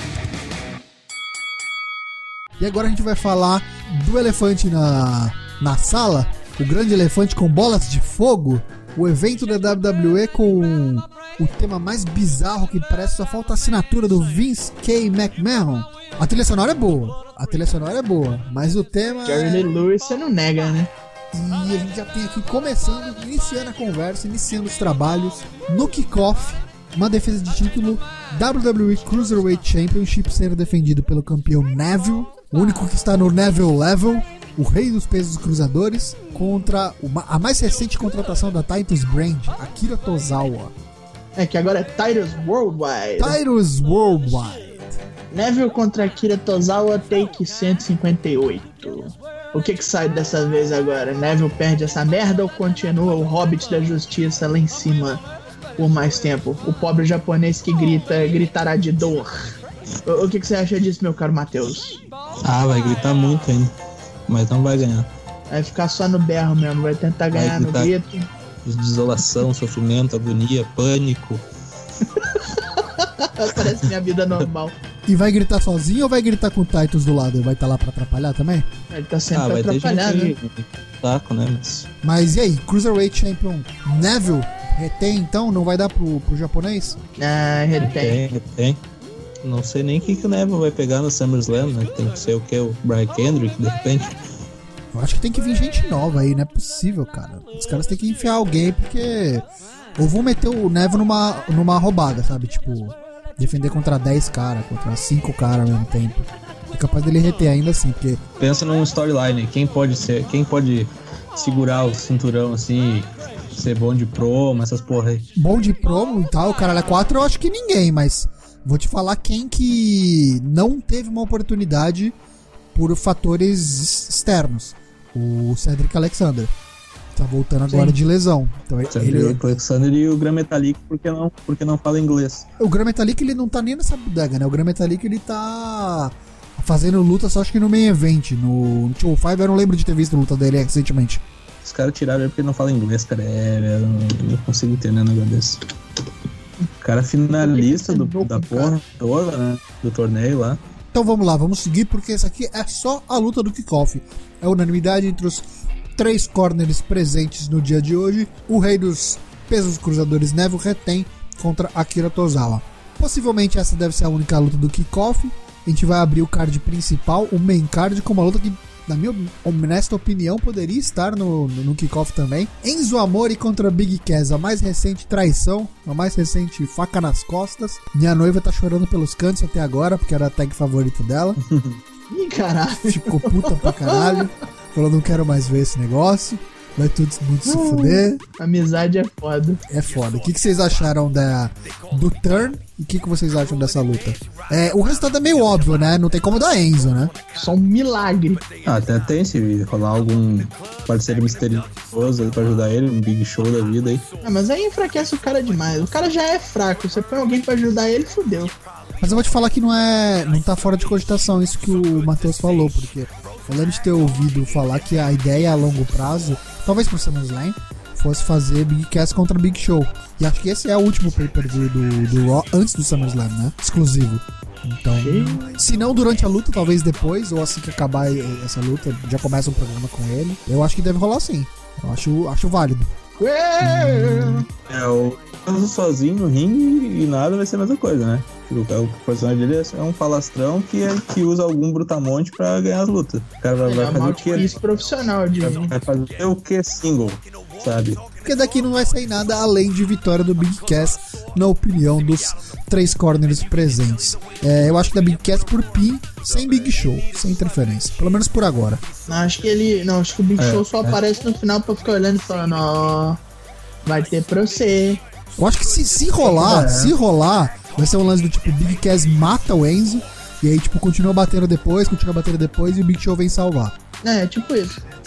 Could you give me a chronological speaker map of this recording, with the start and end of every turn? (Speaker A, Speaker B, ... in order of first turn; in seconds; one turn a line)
Speaker A: 2.6-19.7
Speaker B: 19.2-20.9
Speaker A: 21.3-40.7
Speaker B: 41.4-43.4
Speaker A: 43.2-44.9
Speaker B: 45.3-55.2
Speaker B: 55.8-59.3
Speaker B: 60.0-62.0
Speaker C: 62.4-63.7
Speaker C: 64.3-65.1
Speaker B: 65.5-68.3
Speaker C: 67.3-67.9
Speaker C: 68.6-71.4
Speaker B: 72.4-74.7
Speaker C: 73.5-74.5
Speaker A: 75.1-78.7
Speaker B: 78.9-80.3
Speaker C: 79.3-81.9
Speaker A: 82.0-87.0
Speaker B: 87.2-88.2
Speaker C: 87.8-88.8
Speaker C: 89.4-94.1
Speaker A: 94.9-99.5
Speaker A: 100.0-108.2
Speaker C: 108.4-115.3
Speaker A: 115.3-122.2
Speaker A: 122.7-126.5
Speaker A: 127.1-129.4
Speaker B: 127.7-128.0
Speaker C: 128.9-132.4
Speaker A: 132.6-141.2
Speaker C: 141.6-145.6
Speaker C: 146.8-150.6
Speaker B: 147.4-148.8
Speaker A: 150.9-155.4
Speaker A: 155.9-181.4
Speaker C: 181.4-181.8
Speaker B: 182.1-184.2
Speaker A: 182.9-188.2
Speaker B: 187.4-189.6
Speaker A: 189.7-197.1
Speaker B: 197.3-198.4
Speaker C: 198.6-204.1
Speaker B: 204.2-208.6
Speaker A: 209.0-232.9
Speaker B: 224.9-225.5
Speaker B: 233.2-234.4
Speaker A: 233.6-234.4
Speaker C: 234.7-244.6
Speaker B: 243.6-245.7
Speaker C: 245.4-248.0
Speaker A: 248.2-258.8
Speaker B: 259.1-263.2
Speaker C: 260.4-261.0
Speaker B: 263.8-265.0
Speaker A: 265.4-273.7
Speaker C: 266.2-266.9
Speaker B: 266.4-266.8
Speaker B: 274.0-274.8